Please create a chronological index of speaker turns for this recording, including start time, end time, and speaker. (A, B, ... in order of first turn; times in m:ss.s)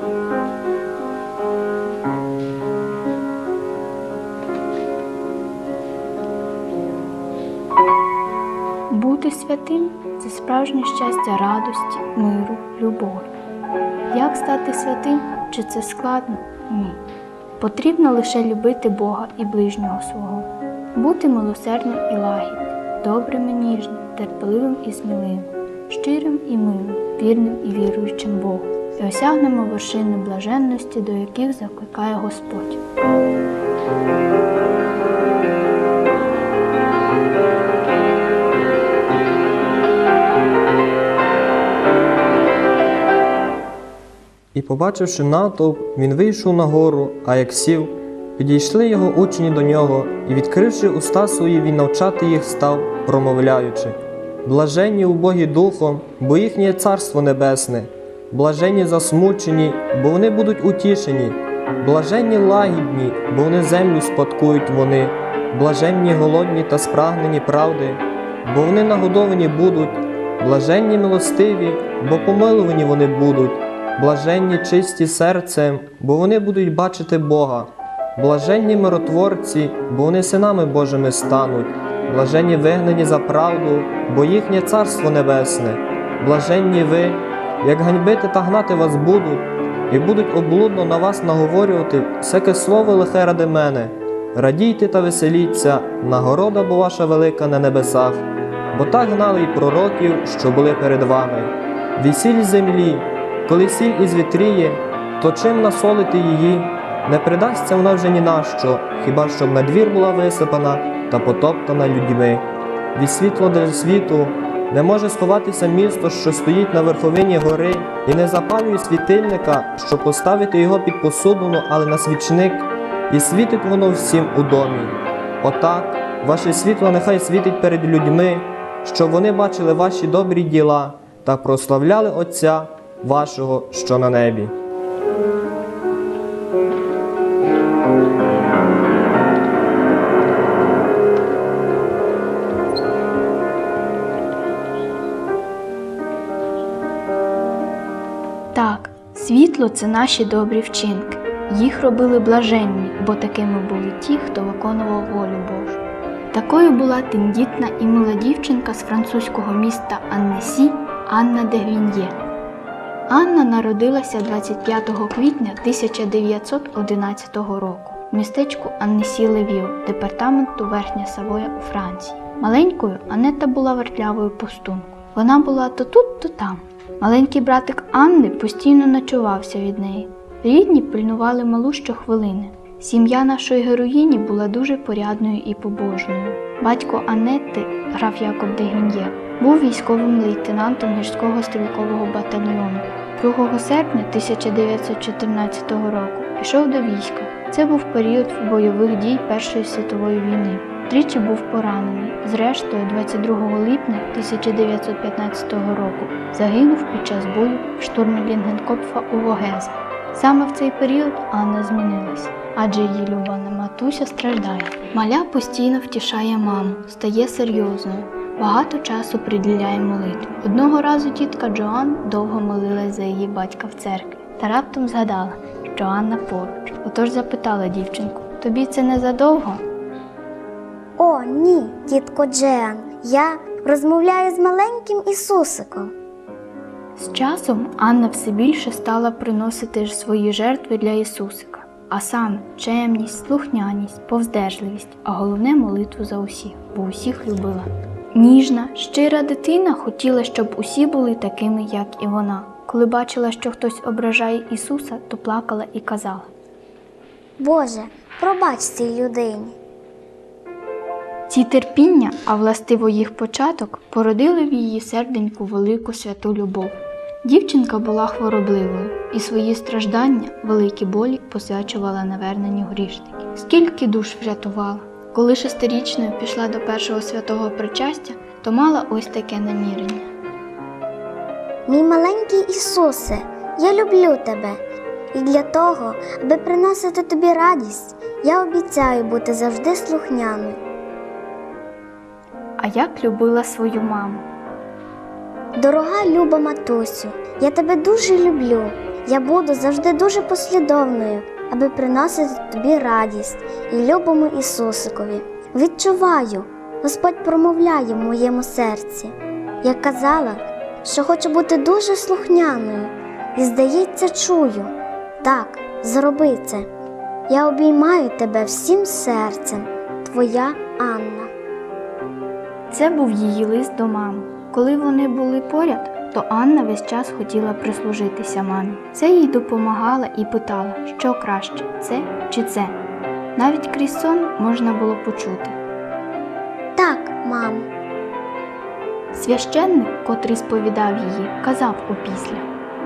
0:08.9-0:13.3 A
0:14.1-0:17.0 A
0:17.6-0:32.8 A
0:44.5-2:14.5 B
2:28.5-2:35.8 A
2:36.3-2:42.2 A
2:43.1-3:49.6 A
3:51.0-3:55.9 C
3:57.0-4:16.3 A
4:17.4-4:19.6 C
4:21.3-4:40.1 A
4:41.7-4:44.6 C
4:45.1-4:50.6 C
4:52.6-4:54.3 A
4:55.6-5:16.7 C
5:17.3-5:21.3 C
5:22.7-5:32.8 A
5:33.4-5:35.6 A
5:36.8-5:37.7 C
5:39.1-5:42.5 A